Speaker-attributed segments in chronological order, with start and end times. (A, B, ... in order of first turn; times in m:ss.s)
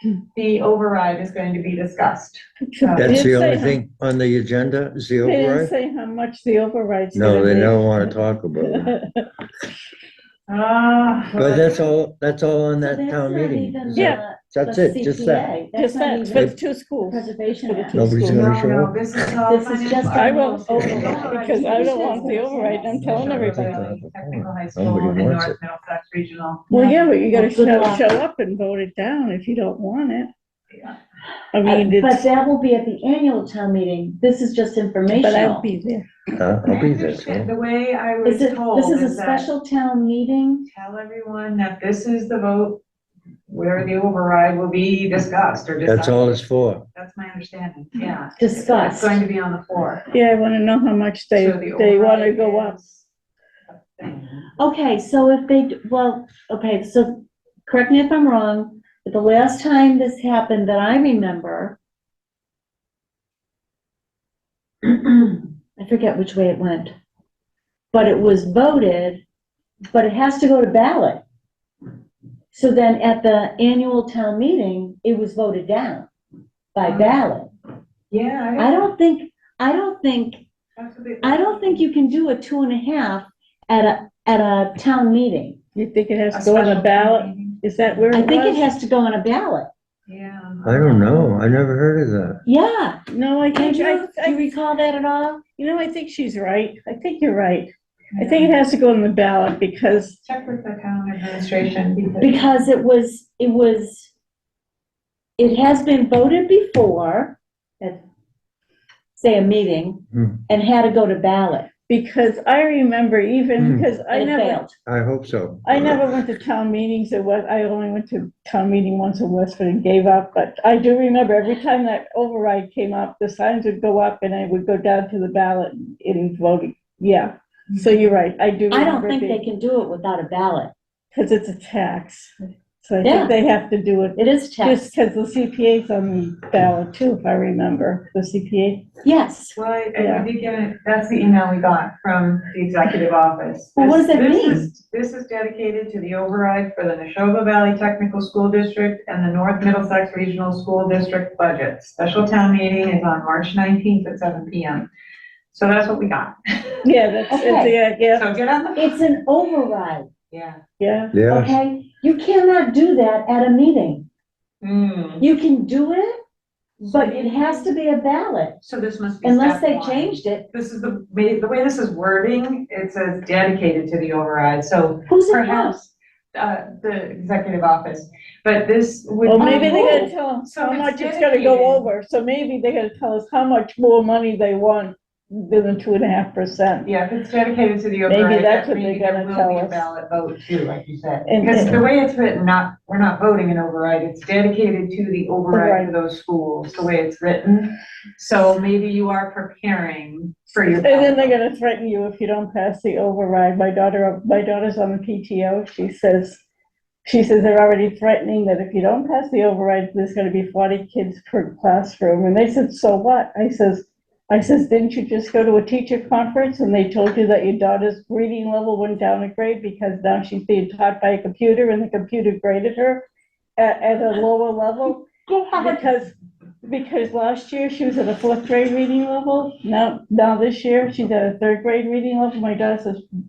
0:00.3-0:03.2 A
0:02.7-0:03.8 B
0:03.0-0:05.7 C
0:05.2-0:09.3 B
0:07.1-0:08.9 C
0:10.5-0:11.9 A
0:11.4-0:15.6 C
0:12.8-0:16.5 D
0:13.9-0:14.2 B
0:15.7-0:18.4 B
0:17.1-0:18.0 D
0:17.9-0:18.9 C
0:18.2-0:26.7 A
0:19.5-0:23.1 D
0:20.1-0:23.7 B
0:23.0-0:25.6 C
0:26.7-0:30.3 B
0:26.7-0:28.0 D
0:30.7-0:31.0 A
0:31.5-0:32.2 B
0:31.6-0:35.6 D
0:35.1-0:36.1 B
0:36.4-0:37.5 C
0:36.6-0:39.5 A
0:38.2-0:40.7 D
0:40.7-0:42.8 A
0:43.5-0:50.0 A
0:45.8-0:46.8 C
0:48.4-0:49.2 D
0:50.1-0:52.8 B
0:51.3-0:53.1 A
0:53.7-0:54.5 A
0:54.6-1:01.8 D
1:04.8-1:06.9 D
1:07.9-1:09.2 D
1:09.9-1:11.2 D
1:12.5-1:16.1 D
1:16.7-1:17.5 D
1:16.8-1:17.2 A
1:18.1-1:18.9 A
1:18.6-1:20.4 D
1:20.8-1:22.2 A
1:21.2-1:25.6 D
1:25.7-1:28.7 B
1:26.3-1:28.1 A
1:28.1-1:29.7 D
1:30.1-1:31.3 A
1:30.6-1:32.4 C
1:32.4-1:33.0 D
1:33.1-1:34.4 B
1:33.5-1:35.4 D
1:35.6-1:40.2 B
1:38.1-1:38.5 A
1:40.2-1:42.4 A
1:42.2-1:44.1 D
1:45.4-1:48.0 D
1:49.2-1:51.7 D
1:50.1-1:50.4 C
1:51.9-1:54.6 B
1:53.6-1:53.9 C
1:54.1-1:54.7 D
1:54.8-1:56.0 C
1:55.6-2:09.4 B
2:08.7-2:10.7 D
2:11.1-2:18.8 B
2:13.0-2:13.3 D
2:14.2-2:14.8 D
2:19.0-2:19.6 D
2:19.6-2:34.9 A
2:20.0-2:20.3 B
2:23.8-2:24.7 D
2:35.5-2:36.8 A
2:36.8-2:38.2 B
2:37.3-2:37.7 D
2:38.1-2:39.0 A
2:38.8-2:40.1 D
2:40.3-2:40.6 A
2:40.8-2:41.2 B
2:41.1-2:41.5 C
2:41.2-2:44.1 D
2:44.6-2:45.2 A
2:45.2-2:46.2 D
2:46.8-2:47.7 A
2:46.8-2:48.6 D
2:48.6-3:01.8 A
2:49.2-2:50.5 D
2:55.1-2:55.8 D
2:59.2-3:06.9 B
2:59.4-3:00.1 D
3:06.8-3:21.4 A
3:08.1-3:09.9 B
3:11.2-3:11.8 B
3:15.5-3:15.9 B
3:20.7-3:26.4 B
3:27.0-3:43.0 B
3:43.6-3:53.0 B
3:45.3-3:45.8 D